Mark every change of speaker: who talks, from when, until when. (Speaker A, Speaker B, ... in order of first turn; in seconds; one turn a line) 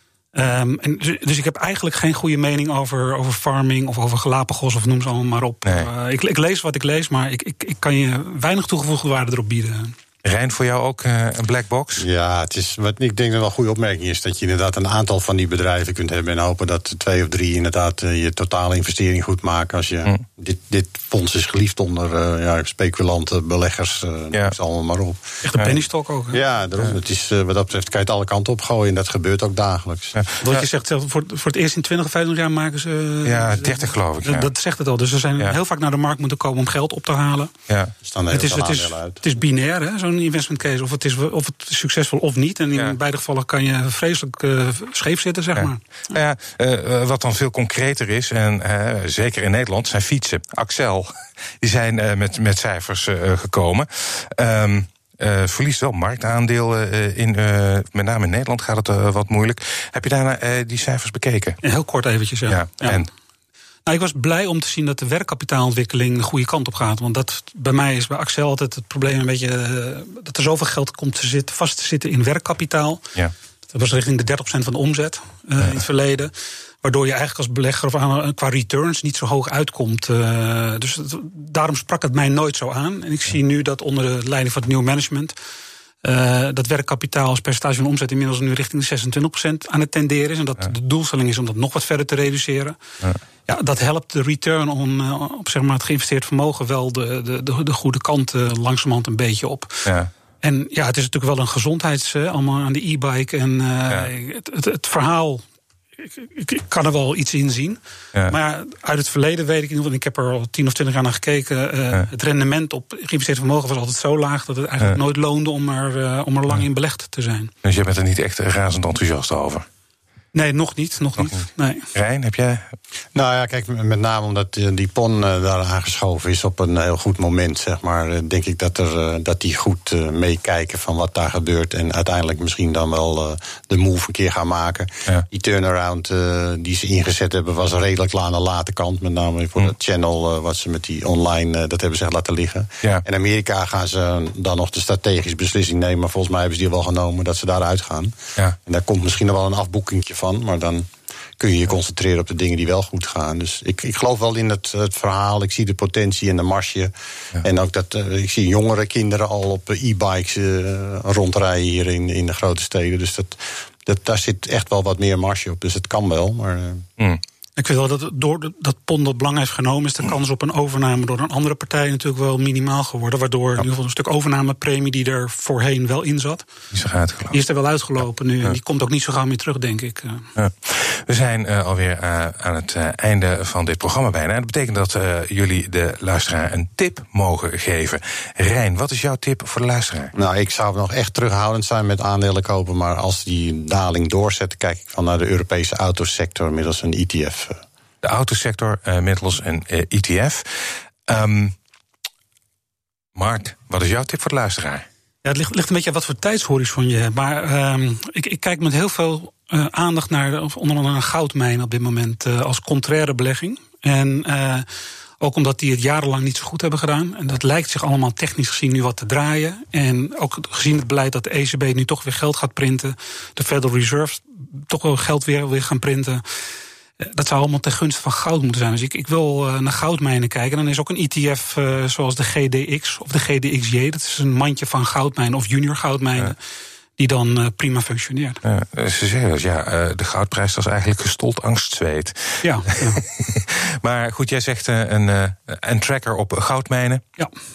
Speaker A: 0.3-9.9
Speaker B: 10.2-12.1
Speaker C: 12.0-25.3
Speaker A: 25.4-26.4
Speaker C: 26.3-30.2
Speaker B: 30.1-30.7
Speaker A: 30.4-37.5
Speaker B: 33.2-34.5
Speaker B: 37.7-37.9
Speaker C: 38.0-39.2
Speaker A: 38.3-45.8
Speaker B: 45.6-61.6
Speaker A: 61.6-63.1
Speaker B: 62.5-63.1
Speaker A: 63.9-73.0
Speaker A: 73.7-85.3
Speaker A: 86.0-92.8
Speaker A: 93.5-99.9
Speaker B: 99.9-100.1
Speaker A: 100.4-105.4
Speaker A: 106.0-117.5
Speaker B: 117.6-119.7
Speaker A: 120.3-121.9
Speaker B: 121.9-122.8
Speaker C: 123.2-150.9
Speaker C: 151.4-166.8
Speaker A: 167.6-176.5
Speaker B: 176.7-177.4
Speaker A: 177.3-180.3
Speaker B: 180.4-190.1
Speaker C: 190.2-197.6
Speaker B: 198.0-201.6
Speaker B: 203.2-204.9
Speaker A: 205.2-214.7
Speaker A: 215.2-226.2
Speaker A: 227.0-236.4
Speaker A: 237.0-238.4
Speaker B: 238.4-247.0
Speaker A: 242.4-243.0